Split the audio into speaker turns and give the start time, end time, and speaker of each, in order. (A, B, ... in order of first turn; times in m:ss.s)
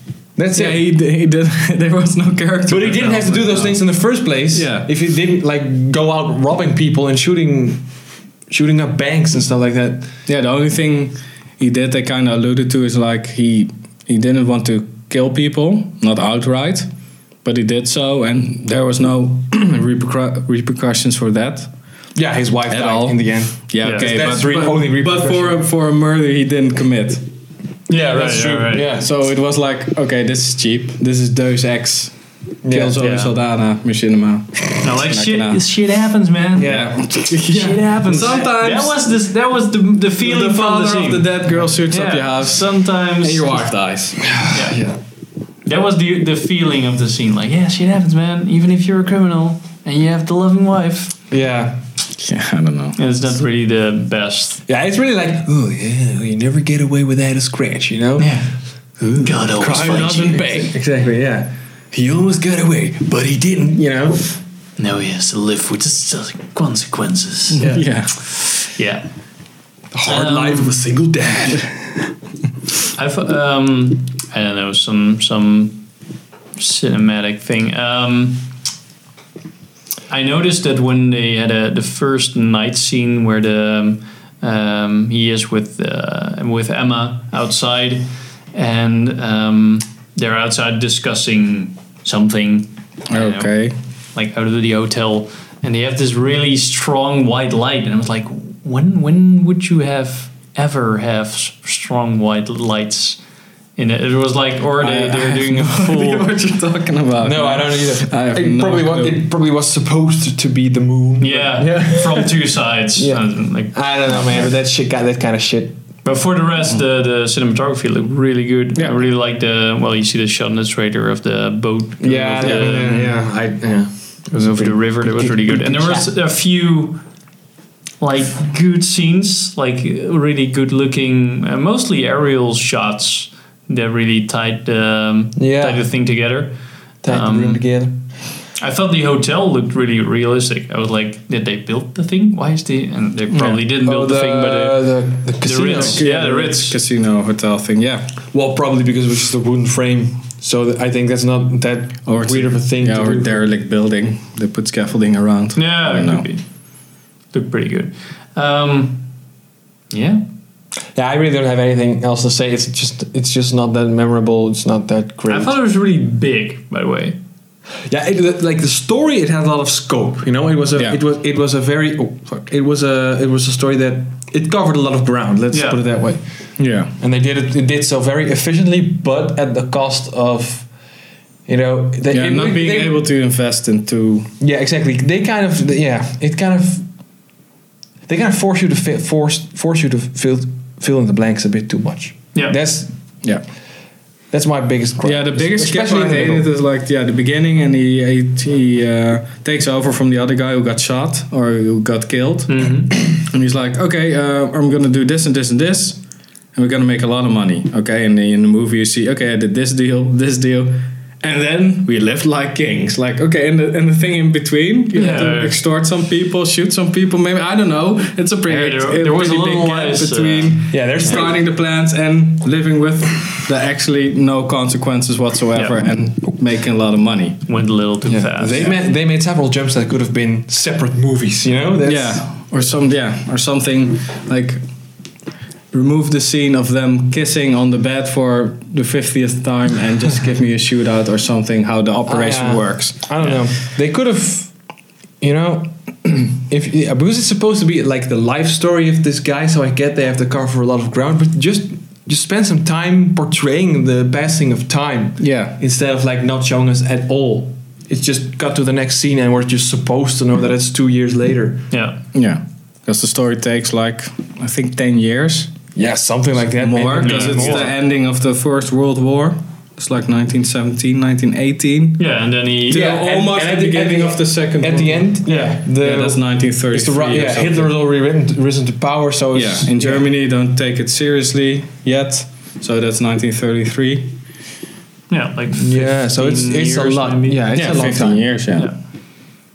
0:00.4-0:00.8 A
0:00.5-0:03.9 B
0:02.7-0:07.8 A
0:04.5-0:04.9 B
0:08.5-0:10.1 A
0:10.3-0:16.9 B
0:17.4-0:21.7 B
0:22.2-0:25.6 A
0:22.7-0:27.2 B
0:23.8-0:24.2 C
0:27.9-0:28.9 C
0:28.1-0:29.1 A
0:28.9-0:32.1 B
0:32.6-0:33.0 A
0:32.7-0:35.6 B
0:33.0-0:33.3 C
0:34.8-0:36.7 C
0:36.6-0:37.2 A
0:36.6-0:39.0 B
0:37.4-0:41.3 C
0:38.2-0:38.5 A
0:40.2-0:44.2 B
0:41.9-0:43.7 C
0:44.2-0:45.0 A
0:44.5-0:44.8 C
0:45.6-0:51.2 C
0:51.3-0:51.8 A
0:52.2-0:53.0 B
0:53.0-0:54.6 C
0:54.7-0:58.4 A
0:58.2-0:58.4 B
0:59.0-1:00.4 B
0:59.2-1:00.4 C
0:59.5-1:04.3 A
1:04.8-1:07.7 C
1:07.6-1:08.2 B
1:07.6-1:07.8 A
1:08.3-1:09.1 C
1:09.9-1:11.7 A
1:10.0-1:10.8 C
1:13.0-1:15.9 C
1:16.6-1:18.5 C
1:20.1-1:33.5 C
1:33.1-1:33.7 B
1:34.2-1:43.2 C
1:43.8-1:46.3 C
1:44.8-1:49.2 B
1:47.2-1:55.8 A
1:51.2-1:54.3 C
1:56.0-2:03.2 C
1:58.8-1:59.0 A
2:02.0-2:06.1 A
2:04.6-2:07.0 C
2:08.0-2:16.5 C
2:15.4-2:15.8 A
2:17.0-2:18.0 A
2:17.1-2:17.6 C
2:18.6-2:26.8 C
2:23.3-2:26.2 A
2:25.7-2:28.1 B
2:28.3-2:33.4 A
2:32.1-2:36.3 B
2:35.6-2:36.4 C
2:37.3-2:39.1 C
2:39.9-2:40.2 C
2:41.0-2:45.6 A
2:45.3-2:47.2 C
2:47.9-2:56.2 A
2:55.5-2:55.8 C
2:56.6-2:56.9 B
2:57.0-3:00.7 A
3:01.5-3:03.0 A
3:02.1-3:04.3 B
3:04.4-3:06.9 A
3:08.1-3:12.9 A
3:14.3-3:16.5 A
3:15.0-3:26.0 B
3:22.5-3:23.0 C
3:26.5-3:47.4 B
3:34.9-3:35.6 C
3:38.5-3:41.3 C
3:40.7-3:41.4 A
3:45.6-3:45.9 C
3:47.5-3:48.7 C
3:48.0-3:52.3 A
3:51.8-3:54.6 B
3:55.7-4:03.4 B
4:02.1-4:04.5 A
4:05.2-4:21.7 A
4:15.2-4:15.6 B
4:21.7-4:22.0 C
4:22.1-4:25.5 B
4:25.8-4:27.7 A
4:26.6-4:32.0 B
4:27.0-4:27.7 C
4:32.0-4:33.0 C
4:32.7-4:37.7 B
4:32.7-4:40.1 A
4:39.3-4:44.1 B
4:45.1-4:47.5 C
4:45.5-4:48.3 A
4:47.5-4:48.7 B